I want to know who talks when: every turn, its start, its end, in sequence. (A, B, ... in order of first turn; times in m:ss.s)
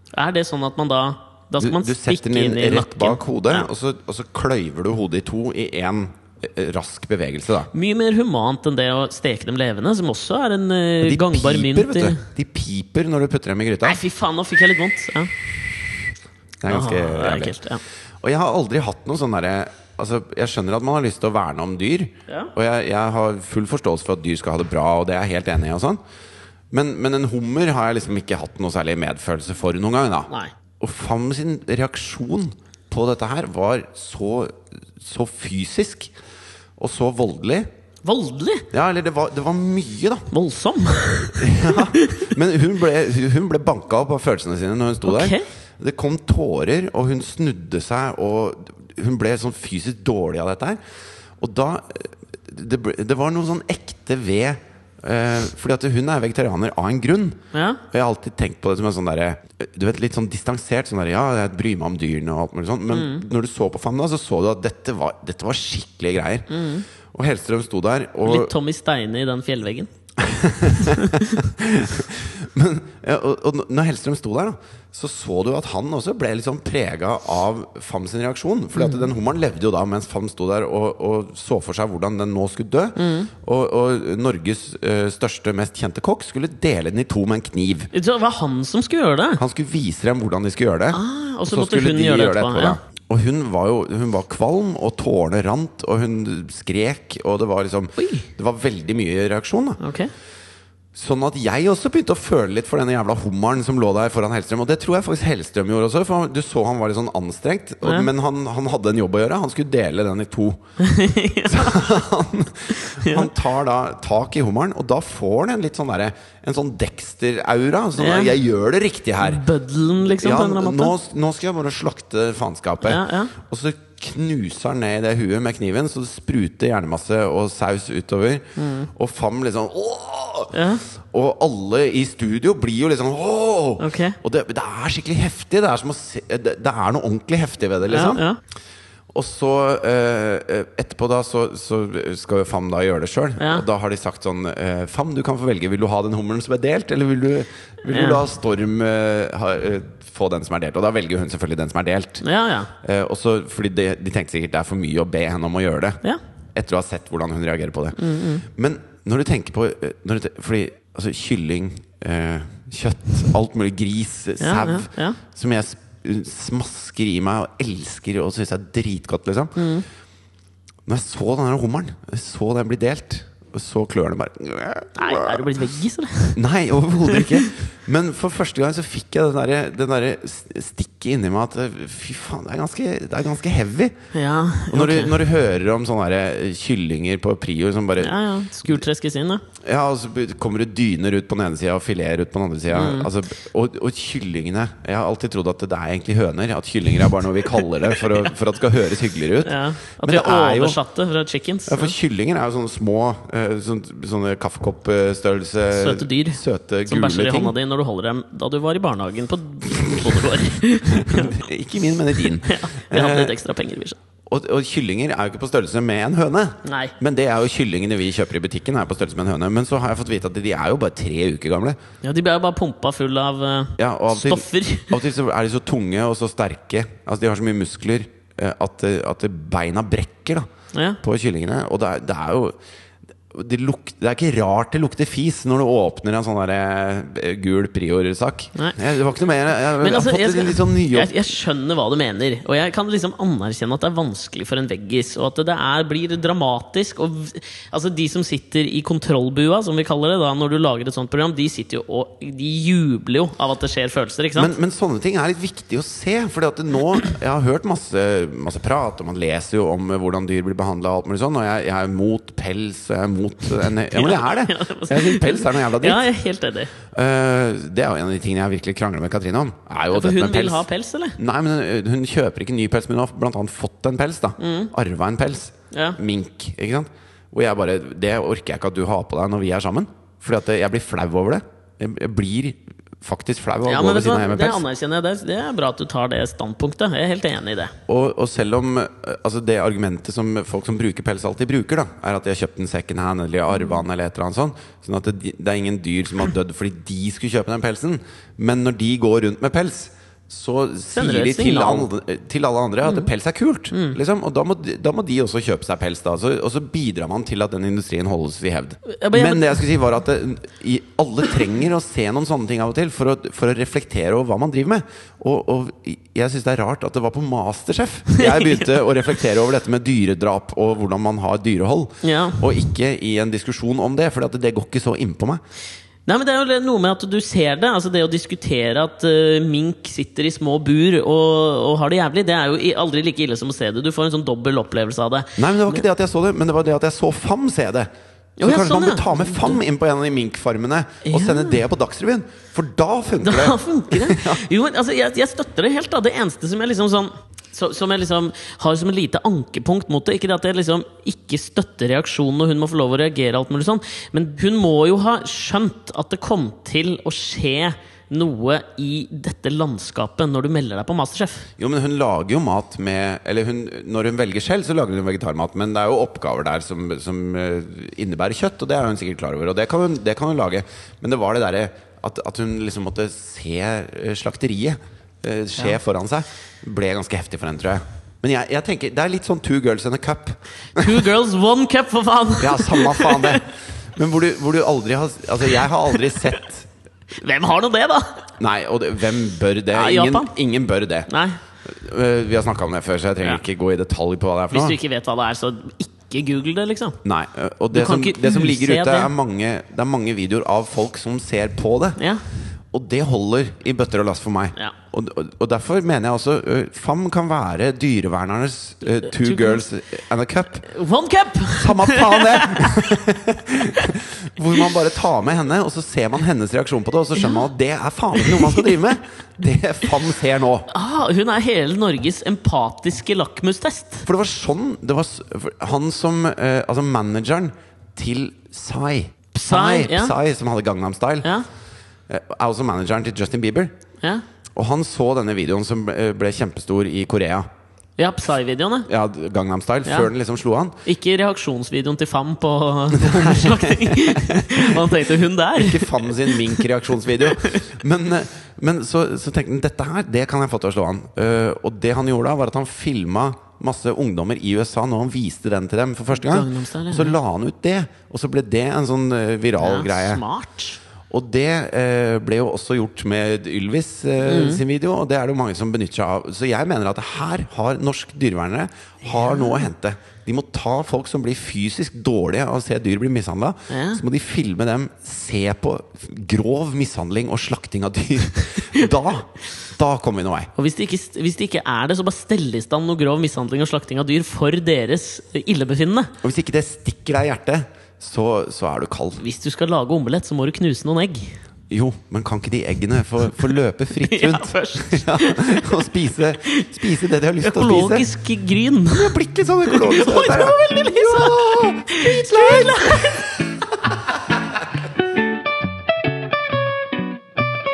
0:00.1-0:03.7 A
0:01.6-0:07.7 B
0:07.7-0:12.2 A
0:11.0-0:14.0 B
0:13.8-0:15.3 A
0:16.6-0:17.6 B
0:16.7-0:17.8 A
0:18.2-0:26.0 B
0:26.7-0:36.1 B
0:36.8-0:37.7 B
0:38.0-0:38.7 A
0:38.7-0:40.3 B
0:40.3-0:42.3 A
0:41.4-0:50.8 B
0:45.0-0:45.5 A
0:51.4-1:06.6 B
0:57.5-0:57.8 A
1:02.9-1:03.3 A
1:06.5-1:06.9 A
1:07.1-1:08.5 B
1:08.2-1:09.9 A
1:10.2-1:27.9 B
1:10.8-1:11.4 A
1:18.8-1:19.1 A
1:23.0-1:23.3 A
1:27.9-1:29.4 A
1:29.4-1:39.8 B
1:30.9-1:32.8 A
1:38.0-1:38.3 A
1:39.8-1:40.1 A
1:40.9-1:50.6 B
1:47.8-1:48.1 A
1:50.8-1:51.8 A
1:51.4-1:59.4 B
1:52.7-1:53.3 A
1:58.0-1:58.4 A
1:59.2-2:00.9 A
2:00.1-2:18.2 B
2:02.8-2:03.3 A
2:08.6-2:08.9 A
2:10.5-2:10.8 A
2:13.8-2:14.2 A
2:17.9-2:18.4 A
2:19.1-2:32.2 B
2:23.4-2:23.6 A
2:27.9-2:28.2 A
2:32.2-2:32.7 A
2:32.8-2:36.0 B
2:36.6-2:49.7 B
2:38.0-2:38.5 A
2:44.4-2:45.2 A
2:49.6-2:49.8 A
2:50.9-2:55.6 B
2:55.0-2:56.4 A
2:56.4-3:04.0 B
2:57.0-2:57.5 A
3:04.1-3:05.2 A
3:04.7-3:08.2 B
3:08.0-3:09.4 A
3:09.6-3:20.8 B
3:12.7-3:13.1 A
3:19.4-3:22.0 A
3:21.7-3:27.6 B
3:25.7-3:31.4 A
3:29.7-3:30.3 B
3:30.9-3:33.4 B
3:32.2-3:34.0 A
3:34.3-3:41.8 B
3:36.6-3:36.9 A
3:42.0-3:45.0 A
3:43.8-3:50.5 B
3:50.7-3:51.0 A
3:51.0-3:52.6 B
3:53.3-4:01.1 B
3:59.7-4:14.5 A
4:14.4-4:26.1 B
4:23.9-4:26.7 A
4:26.9-4:30.6 B
4:29.9-4:31.2 A
4:31.2-4:44.6 B
4:34.4-4:34.7 A
4:35.7-4:36.0 A
4:43.6-4:47.8 A
4:47.9-5:25.4 B
4:53.6-4:53.8 A
5:00.9-5:01.9 A
5:03.7-5:04.0 A
5:08.9-5:09.6 A
5:18.1-5:18.8 A
5:22.0-5:22.4 A
5:26.1-5:35.8 A
5:35.4-5:37.9 B
5:38.4-5:39.6 A
5:38.4-5:44.4 B
5:41.0-5:41.6 A
5:43.2-6:01.5 A
6:01.6-6:21.0 B
6:20.8-6:23.4 A
6:22.4-6:26.7 B
6:26.0-6:26.4 A
6:27.1-6:28.2 A
6:28.4-6:31.1 B
6:29.7-6:30.3 A
6:31.1-6:31.4 A
6:31.7-6:34.8 B
6:34.5-6:37.0 A
6:37.0-6:42.0 B
6:37.7-6:39.1 A
6:42.7-6:50.7 B
6:49.1-6:49.6 A
6:50.7-6:53.0 A
6:51.5-7:00.7 B
6:57.2-6:57.5 A
6:58.2-6:58.8 A
7:00.7-7:04.1 A
7:04.1-7:11.3 B
7:09.4-7:10.2 A
7:12.1-7:13.8 B
7:14.6-7:17.5 B
7:18.0-7:18.9 A
7:18.9-7:20.8 B
7:20.8-7:26.6 A
7:22.9-7:24.9 B
7:25.6-7:40.2 B
7:27.2-7:27.7 A
7:36.2-7:37.2 A
7:39.6-7:40.8 A
7:41.1-8:00.5 B
7:44.2-7:44.6 A
7:49.3-7:49.6 A
7:53.7-7:54.0 A
8:00.6-8:06.1 A
8:06.2-8:09.2 B
8:09.2-8:11.4 A
8:11.7-8:18.1 B
8:14.0-8:15.8 A
8:16.4-8:16.7 A
8:17.4-8:19.2 A
8:18.9-8:24.4 B
8:19.7-8:23.4 A